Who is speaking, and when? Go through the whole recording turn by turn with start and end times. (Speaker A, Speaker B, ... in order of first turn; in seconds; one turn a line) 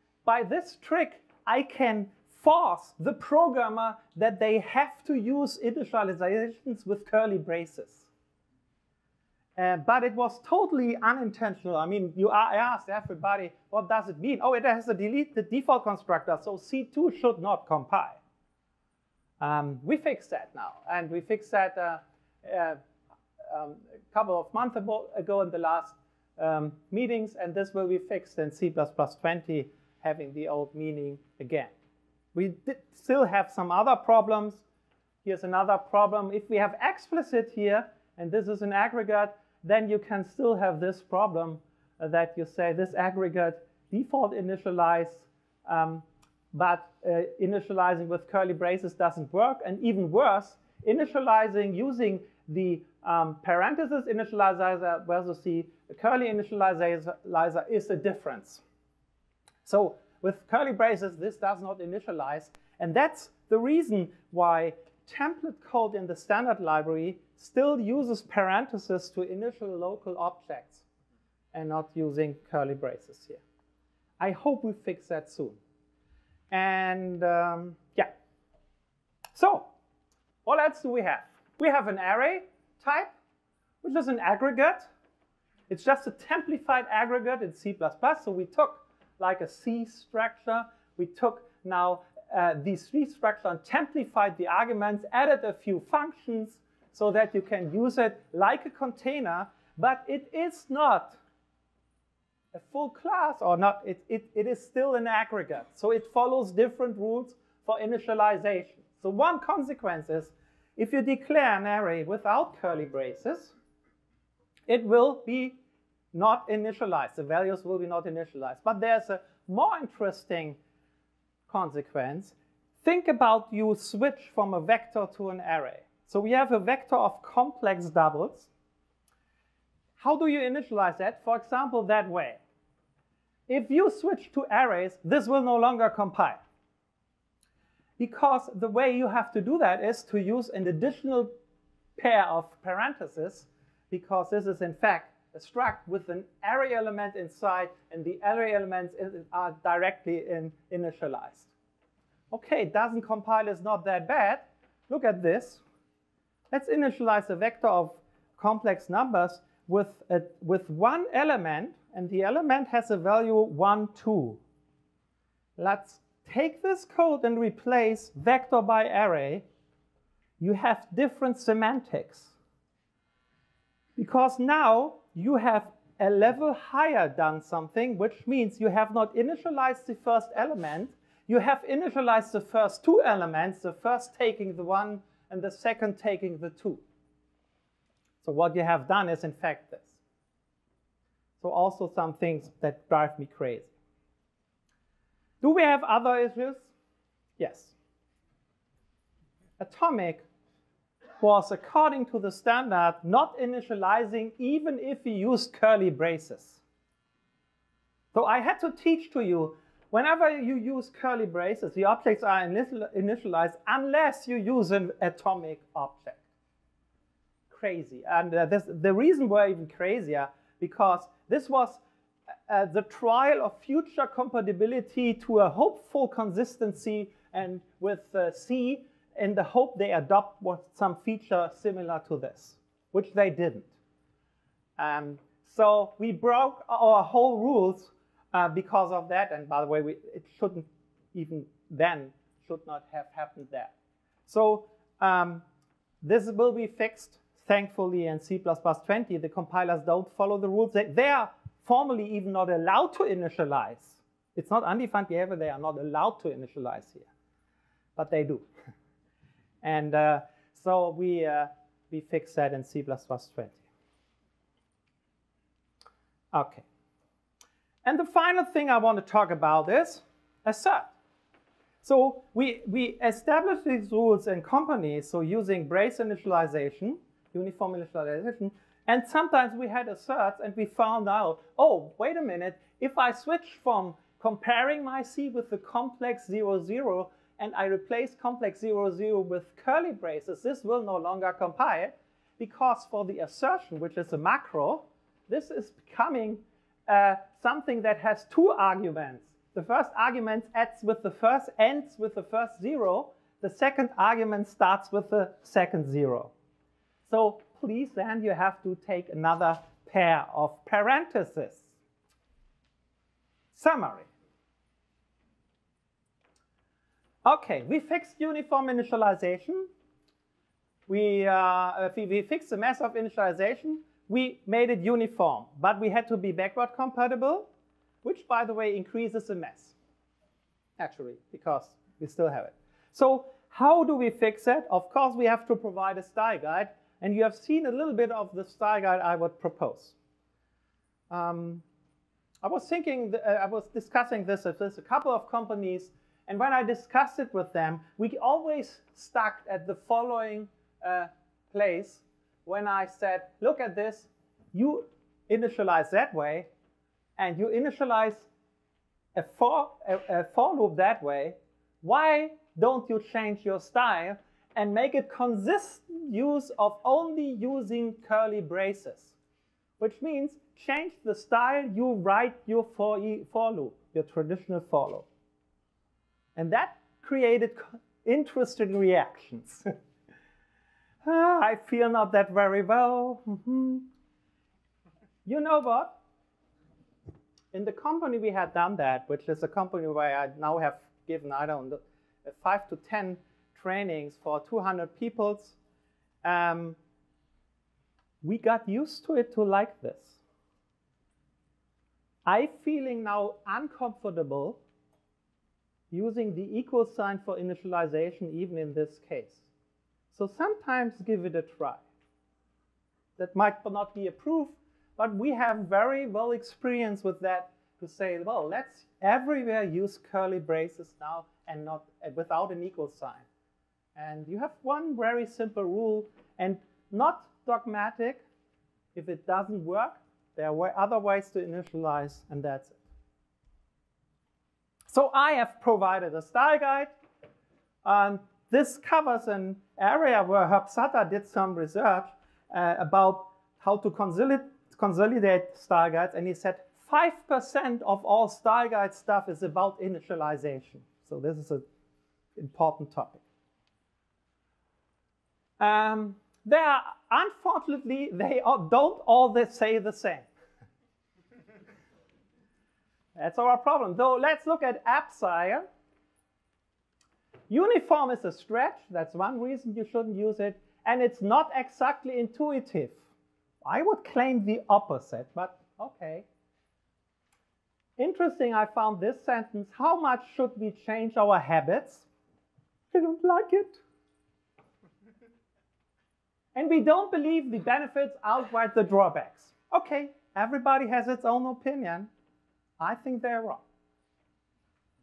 Speaker A: 0.2-8.1
Speaker A: 9.6-18.2
Speaker A: 19.4-22.8
Speaker A: 23.5-31.7
Speaker A: 32.3-34.6
Speaker A: 35.2-58.6
Speaker A: 59.6-70.8
Speaker A: 71.5-73.4
Speaker A: 74.2-75.6
Speaker A: 76.5-78.1
Speaker A: 79.3-79.7
Speaker A: 80.4-83.1
Speaker A: 83.8-84.9
Speaker A: 85.7-101.2
Speaker A: 102.5-113.5
Speaker A: 114.7-115.6
Speaker A: 116.1-120.6
Speaker A: 121.5-128.5
Speaker A: 130.0-132.4
Speaker A: 133.5-136.4
Speaker A: 138.0-141.3
Speaker A: 142.0-151.5
Speaker A: 152.3-155.6
Speaker A: 156.5-164.4
Speaker A: 165.6-169.4
Speaker A: 170.4-172.3
Speaker A: 173.9-186.8
Speaker A: 188.2-190.0
Speaker A: 191.4-193.7
Speaker A: 195.4-196.7
Speaker A: 197.4-197.7
Speaker A: 199.6-200.2
Speaker A: 201.2-206.6
Speaker A: 208.1-216.2
Speaker A: 217.5-221.8
Speaker A: 222.5-233.7
Speaker A: 234.8-243.7
Speaker A: 244.3-245.4
Speaker A: 246.0-257.1
Speaker A: 257.9-258.4
Speaker A: 259.6-263.6
Speaker A: 266.3-266.6
Speaker A: 267.8-270.9
Speaker A: 271.8-306.3
Speaker A: 307.1-311.8
Speaker A: 313.5-314.1
Speaker A: 317.2-319.7
Speaker A: 320.9-327.5
Speaker A: 328.0-329.8
Speaker A: 330.8-339.9
Speaker A: 341.1-341.6
Speaker A: 342.4-356.5
Speaker A: 357.2-358.3
Speaker A: 359.1-369.1
Speaker A: 369.8-375.1
Speaker A: 376.4-379.6
Speaker A: 381.0-383.9
Speaker A: 385.2-386.0
Speaker A: 387.5-395.6
Speaker A: 396.2-396.8
Speaker A: 398.2-400.2
Speaker A: 402.2-404.6
Speaker A: 405.9-409.5
Speaker A: 410.1-411.8
Speaker A: 413.2-423.2
Speaker A: 423.9-428.2
Speaker A: 428.9-432.8
Speaker A: 434.9-436.9
Speaker A: 437.8-451.6
Speaker A: 452.4-453.2
Speaker A: 455.6-460.3
Speaker A: 463.1-465.6
Speaker A: 467.5-473.0
Speaker A: 473.6-476.3
Speaker A: 478.0-482.1
Speaker A: 482.9-483.8
Speaker A: 486.5-492.1
Speaker A: 492.8-493.6